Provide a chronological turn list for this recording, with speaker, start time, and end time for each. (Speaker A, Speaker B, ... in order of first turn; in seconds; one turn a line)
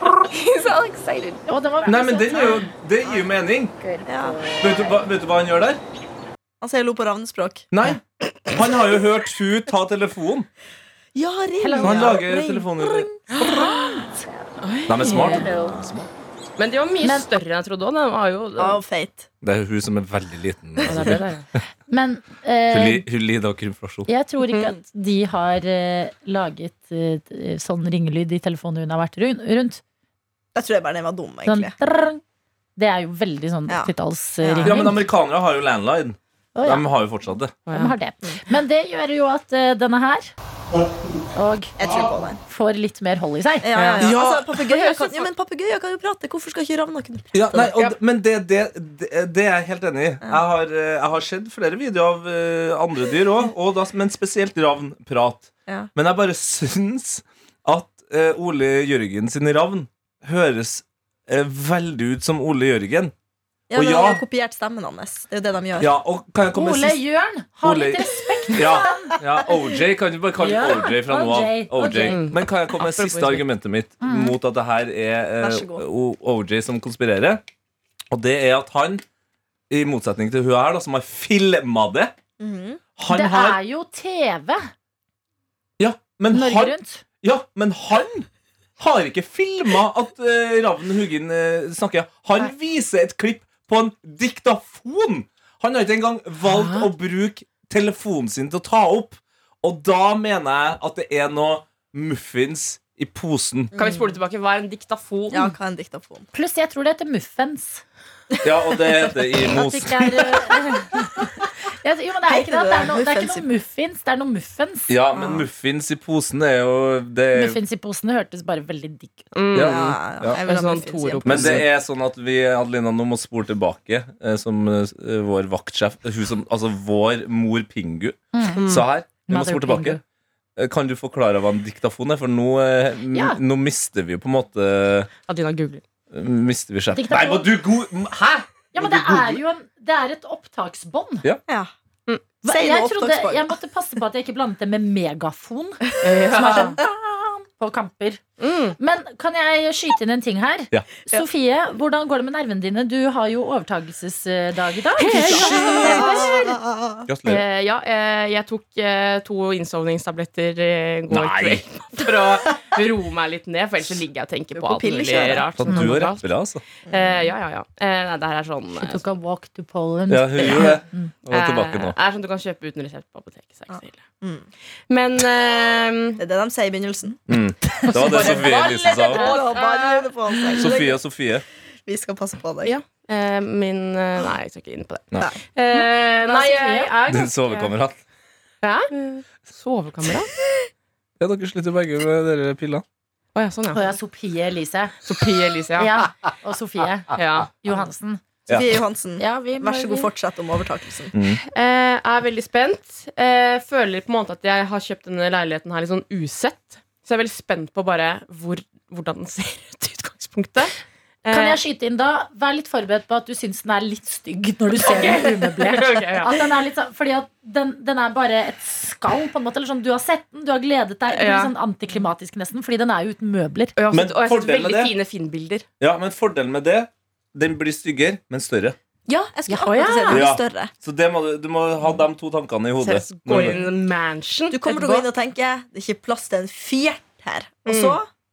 Speaker A: 0.3-1.4
Speaker B: 1.5-2.6
Speaker C: 1.9-3.7
Speaker A: 3.8-5.0
Speaker D: 4.0-4.4
Speaker C: 4.6-5.8
Speaker D: 6.6-7.7
Speaker C: 7.7-10.5
Speaker D: 11.1-14.1
Speaker B: 11.6-12.2
Speaker C: 11.8-13.1
Speaker E: 13.3-13.6
Speaker E: 14.6-15.4
Speaker C: 14.9-16.1
Speaker A: 15.2-15.8
Speaker E: 16.6-18.8
Speaker D: 18.6-19.3
Speaker C: 19.4-21.2
Speaker E: 20.9-21.4
Speaker B: 21.9-23.0
Speaker C: 22.7-24.1
Speaker B: 24.1-29.8
Speaker D: 30.5-31.7
Speaker B: 31.4-32.2
Speaker B: 32.8-35.0
Speaker D: 34.4-34.9
Speaker C: 34.6-37.5
Speaker B: 36.5-36.8
Speaker E: 37.7-37.9
Speaker B: 37.7-40.3
Speaker B: 41.4-41.7
Speaker D: 41.8-42.4
Speaker B: 42.5-43.7
Speaker D: 43.6-47.8
Speaker E: 43.7-45.3
Speaker C: 44.0-44.5
Speaker C: 47.3-63.1
Speaker D: 63.7-65.9
Speaker C: 63.7-64.2
Speaker C: 65.8-67.0
Speaker B: 66.5-69.2
Speaker C: 67.6-77.4
Speaker B: 70.4-72.2
Speaker E: 72.0-73.5
Speaker B: 74.0-74.3
Speaker D: 75.4-75.8
Speaker C: 78.1-79.0
Speaker C: 79.7-82.1
Speaker D: 82.4-82.8
Speaker C: 83.0-83.6
Speaker B: 83.1-84.7
Speaker C: 85.8-88.3
Speaker B: 86.3-87.0
Speaker C: 88.8-103.7
Speaker E: 96.5-96.9
Speaker D: 103.7-104.1
Speaker E: 103.8-105.5
Speaker D: 105.3-106.3
Speaker B: 106.3-107.8
Speaker C: 108.4-110.2
Speaker B: 109.5-111.1
Speaker B: 111.8-114.9
Speaker D: 112.2-113.5
Speaker C: 114.9-117.6
Speaker D: 115.2-115.4
Speaker B: 117.3-119.3
Speaker E: 119.3-121.7
Speaker C: 119.5-120.4
Speaker D: 119.5-121.6
Speaker C: 121.2-130.0
Speaker B: 128.3-128.6
Speaker B: 129.3-130.0
Speaker C: 130.6-135.1
Speaker B: 133.1-133.4
Speaker E: 135.3-135.8
Speaker C: 136.1-139.4
Speaker B: 136.9-137.5
Speaker B: 138.7-141.2
Speaker B: 142.4-148.2
Speaker D: 142.4-143.5
Speaker E: 146.0-146.8
Speaker E: 148.4-148.8
Speaker B: 148.8-156.6
Speaker E: 155.0-156.0
Speaker D: 155.1-157.0
Speaker C: 157.1-157.4
Speaker E: 157.2-166.3
Speaker C: 161.1-161.6
Speaker D: 164.5-165.5
Speaker C: 165.6-166.6
Speaker E: 166.9-169.0
Speaker D: 166.9-167.3
Speaker B: 168.8-171.1
Speaker C: 170.1-171.9
Speaker E: 171.3-174.0
Speaker D: 173.7-174.4
Speaker E: 174.9-176.2
Speaker D: 176.2-177.2
Speaker C: 177.3-179.3
Speaker E: 177.8-180.7
Speaker D: 178.1-181.0
Speaker C: 180.6-181.4
Speaker D: 181.8-182.7
Speaker E: 182.6-187.7
Speaker B: 185.7-186.9
Speaker C: 187.1-188.0
Speaker E: 188.6-190.3
Speaker C: 191.2-192.8
Speaker E: 193.3-193.9
Speaker B: 193.7-194.9
Speaker E: 195.0-195.9
Speaker B: 195.8-197.1
Speaker E: 197.2-197.5
Speaker B: 197.6-198.2
Speaker C: 198.5-198.8
Speaker D: 198.5-201.1
Speaker B: 199.2-200.1
Speaker C: 201.1-201.4
Speaker E: 201.5-210.7
Speaker E: 211.2-211.6
Speaker B: 211.3-223.7
Speaker E: 214.8-216.3
Speaker E: 221.1-221.5
Speaker E: 223.8-225.6
Speaker C: 223.9-224.9
Speaker C: 225.8-228.8
Speaker D: 229.1-230.7
Speaker B: 229.5-230.3
Speaker C: 230.1-233.6
Speaker E: 232.8-235.0
Speaker D: 234.5-238.1
Speaker B: 234.7-235.0
Speaker E: 237.7-238.0